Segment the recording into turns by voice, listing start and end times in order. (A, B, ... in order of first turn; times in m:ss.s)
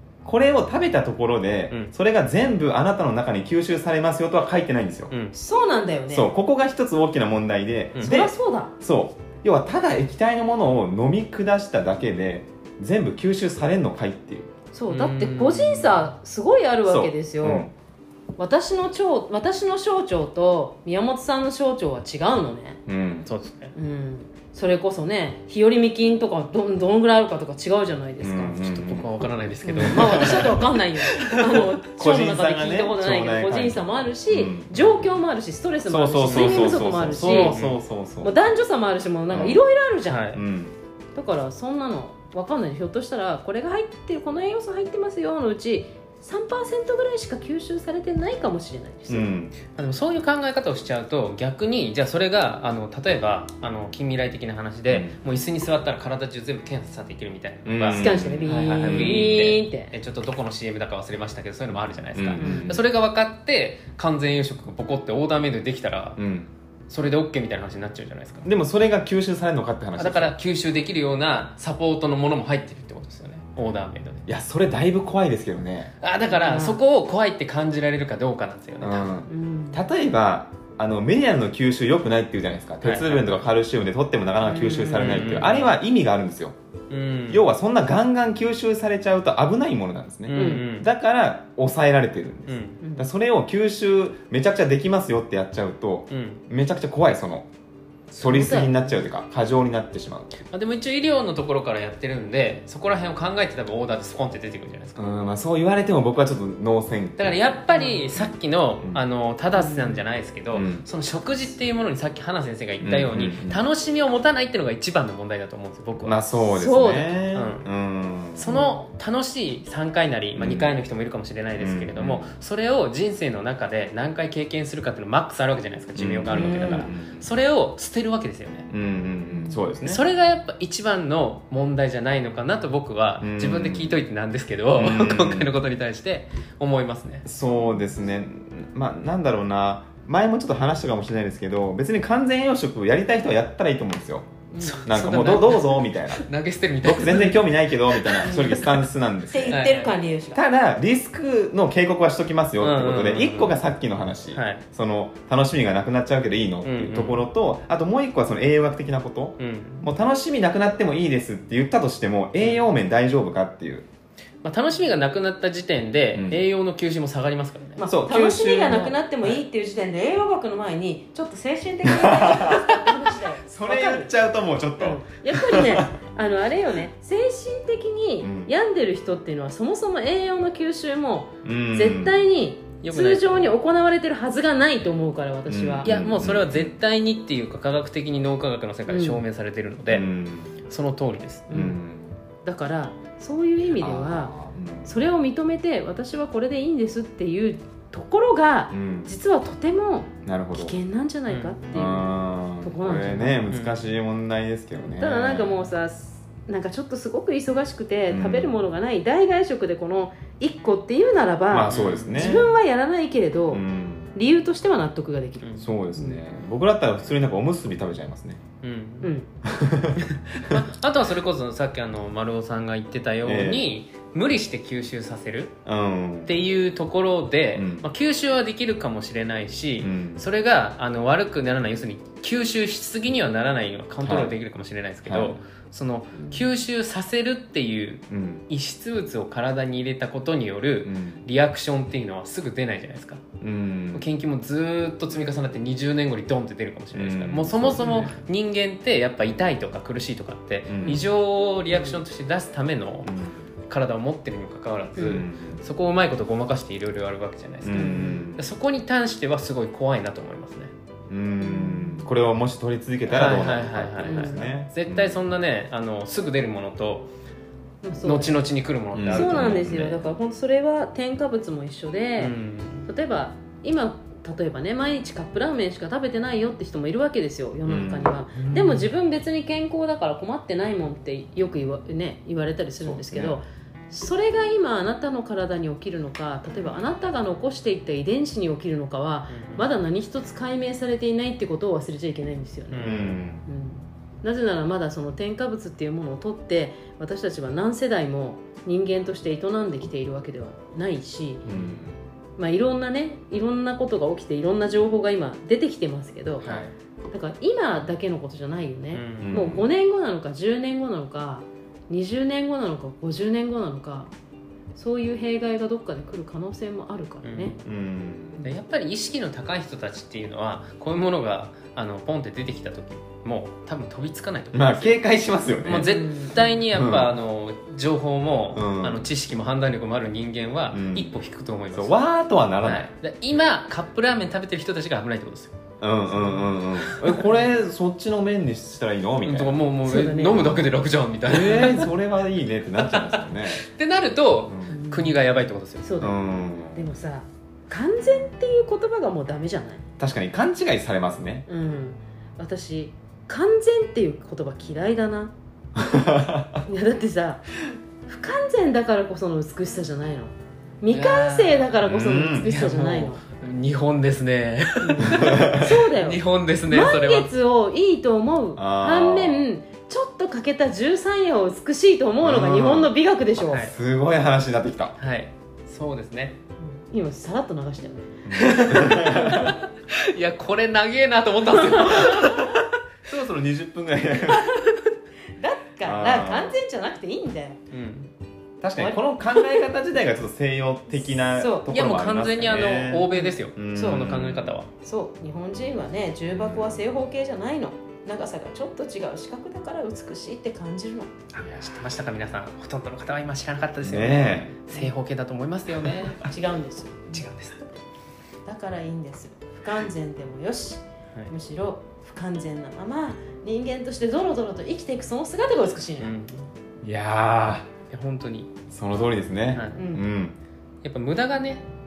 0:00.2-0:05.1 A
0:05.1-0:05.3 B
0:05.3-0:06.3 C
0:06.1-0:14.5 A
0:08.0-0:08.7 C
0:14.7-0:17.7 C
0:14.9-0:16.1 B
0:16.8-0:17.7 A
0:18.4-0:22.8 C
0:22.9-0:23.3 A
0:23.2-0:23.7 B
0:23.7-0:28.6 C
0:28.2-0:29.1 A
0:28.5-0:31.7 B
0:29.6-0:37.6 C
0:29.8-0:30.7 A
0:31.4-0:34.9 A
0:35.8-0:38.4 A
0:36.2-0:37.8 B
0:38.2-0:40.3 C
0:39.3-0:39.6 A
0:40.1-0:40.4 B
0:40.3-0:40.7 A
0:41.1-0:49.3 C
0:49.1-0:49.6 A
0:49.7-1:06.2 B
0:54.9-0:55.2 A
0:57.6-0:59.3 A
0:57.9-0:59.9 C
1:02.1-1:02.8 A
1:02.4-1:02.8 C
1:06.2-1:06.5 A
1:06.9-1:08.5 B
1:08.4-1:10.3 A
1:10.0-1:14.2 B
1:14.3-1:15.9 A
1:16.0-1:19.1 B
1:16.2-1:16.8 C
1:18.8-1:26.5 A
1:19.3-1:19.8 C
1:22.8-1:23.4 B
1:24.4-1:25.4 C
1:24.9-1:25.7 B
1:26.9-1:27.4 B
1:27.3-1:37.4 A
1:30.3-1:30.9 B
1:30.3-1:30.6 C
1:32.5-1:32.8 B
1:32.8-1:33.1 C
1:36.1-1:36.4 B
1:38.1-1:40.3 A
1:38.2-1:38.9 C
1:40.5-1:45.0 B
1:45.0-1:47.6 A
1:47.2-1:57.6 B
1:47.7-1:48.1 C
1:48.1-1:49.0 A
1:49.5-1:50.0 C
1:50.5-1:50.8 A
1:52.8-1:53.6 A
1:56.0-1:58.6 A
1:56.6-1:57.1 C
1:58.3-2:08.7 B
1:58.5-1:58.8 C
2:00.4-2:00.7 A
2:01.6-2:02.3 A
2:06.0-2:07.3 A
2:06.3-2:06.9 C
2:08.7-2:10.0 A
2:09.3-2:09.6 C
2:09.8-2:17.2 B
2:13.2-2:14.0 A
2:14.7-2:15.5 A
2:17.2-2:24.3 A
2:24.5-2:25.0 C
2:24.6-2:28.8 B
2:24.8-2:26.2 A
2:26.8-2:29.6 A
2:28.2-2:28.7 C
2:29.3-2:30.4 C
2:29.5-2:29.9 B
2:30.3-2:43.8 A
2:32.6-2:33.6 B
2:34.3-2:34.6 B
2:36.6-2:37.2 B
2:39.4-2:39.9 B
2:42.4-2:42.7 B
2:44.4-2:49.4 B
2:46.1-2:46.4 A
2:47.8-2:54.1 C
2:47.8-2:48.9 A
2:51.8-2:52.6 A
2:52.5-2:52.8 B
2:53.5-2:55.8 A
2:54.8-3:05.9 C
2:58.2-2:58.5 A
3:01.4-3:02.2 A
3:02.8-3:03.5 B
3:05.5-3:06.7 A
3:05.8-3:10.1 B
3:08.9-3:09.2 C
3:09.9-3:10.6 A
3:10.7-3:11.5 B
3:11.5-3:11.8 C
3:11.5-3:12.2 A
3:12.4-3:14.3 C
3:13.7-3:15.0 A
3:14.8-3:23.4 C
3:18.7-3:19.1 A
3:20.2-3:20.7 A
3:21.3-3:21.6 B
3:21.7-3:25.6 A
3:23.5-3:23.8 B
3:24.8-3:33.6 C
3:28.1-3:28.5 A
3:31.5-3:32.5 A
3:31.7-3:32.4 B
3:33.5-3:34.1 A
3:34.1-3:36.2 C
3:35.4-3:35.7 B
3:35.6-3:38.4 A
3:38.6-3:39.1 B
3:39.0-3:39.3 C
3:39.4-3:40.6 A
3:40.3-3:45.5 B
3:43.2-3:43.7 A
3:45.6-3:46.3 A
3:46.2-4:03.2 B
3:47.5-3:47.8 A
3:49.8-3:50.2 A
3:54.0-3:54.3 A
3:55.0-3:55.4 A
3:56.2-3:56.5 C
3:58.1-3:58.4 A
4:00.8-4:01.2 A
4:03.4-4:04.1 A
4:03.9-4:13.1 B
4:06.9-4:08.2 A
4:07.8-4:08.0 C
4:10.7-4:11.0 A
4:11.7-4:12.0 C
4:13.0-4:13.5 A
4:13.7-4:20.7 B
4:15.0-4:15.6 A
4:17.6-4:18.4 A
4:17.7-4:18.3 C
4:21.1-4:25.2 A
4:21.4-4:22.1 C
4:23.1-4:27.1 B
4:24.0-4:24.6 C
4:27.8-4:28.5 C
4:28.0-4:30.0 B
4:28.9-4:29.8 A
4:29.1-4:32.3 C
4:32.2-4:32.9 B
4:32.9-5:01.4 C
4:37.6-4:38.2 A
4:38.3-4:38.9 B
4:42.8-4:43.4 A
4:49.3-4:49.7 B
4:52.7-4:53.2 B
4:52.8-4:53.4 A
5:01.4-5:02.0 A
5:01.5-5:01.8 B
5:02.4-5:06.5 C
5:06.4-5:06.7 A
5:07.1-5:14.1 C
5:08.9-5:09.4 B
5:09.2-5:09.7 A
5:14.7-5:17.6 C
5:17.2-5:17.6 B
5:17.6-5:18.5 A
5:18.4-5:25.0 B
5:24.5-5:25.9 A
5:25.6-5:32.0 B
5:25.7-5:26.6 C
5:26.7-5:27.1 A
5:28.5-5:29.1 A
5:30.7-5:31.2 A
5:31.7-5:32.9 A
5:32.6-5:35.5 B
5:35.8-5:39.6 A
5:36.8-5:37.3 B
5:39.2-5:41.9 B
5:39.8-5:40.6 C
5:40.3-5:40.7 A
5:41.2-5:43.6 A
5:42.8-5:45.9 B
5:44.5-5:44.8 A
5:44.7-5:45.2 C
5:45.8-5:46.2 C
5:46.0-5:46.9 A
5:46.7-5:49.8 C
5:50.0-5:51.4 A
5:51.5-5:55.3 C
5:55.8-5:56.6 A
5:56.6-5:57.4 C
5:58.0-6:03.2 C
6:00.9-6:01.8 B
6:01.8-6:02.5 A
6:02.4-6:07.3 B
6:04.8-6:13.7 C
6:05.1-6:05.7 A
6:08.5-6:09.5 A
6:12.2-6:15.0 A
6:15.0-6:16.4 B
6:16.6-6:18.1 C
6:18.2-6:19.5 A
6:18.3-6:22.6 B
6:21.7-6:22.4 C
6:23.0-6:24.5 A
6:25.4-6:27.6 C
6:25.8-6:26.5 A
6:27.7-6:28.1 B
6:28.6-6:34.6 A
6:28.8-6:29.6 C
6:31.3-6:31.7 C
6:31.6-6:34.7 B
6:33.1-6:33.4 C
6:34.8-6:41.1 C
6:36.3-6:36.8 A
6:41.3-6:46.2 B
6:43.8-6:44.6 A
6:46.1-6:47.2 C
6:47.1-6:47.6 B
6:48.4-6:56.2 C
6:56.0-6:56.5 B
6:56.8-6:57.7 A
6:57.9-6:58.5 B
6:58.7-7:00.4 A
6:59.5-6:59.8 B
6:59.8-7:00.0 C
7:00.8-7:01.6 B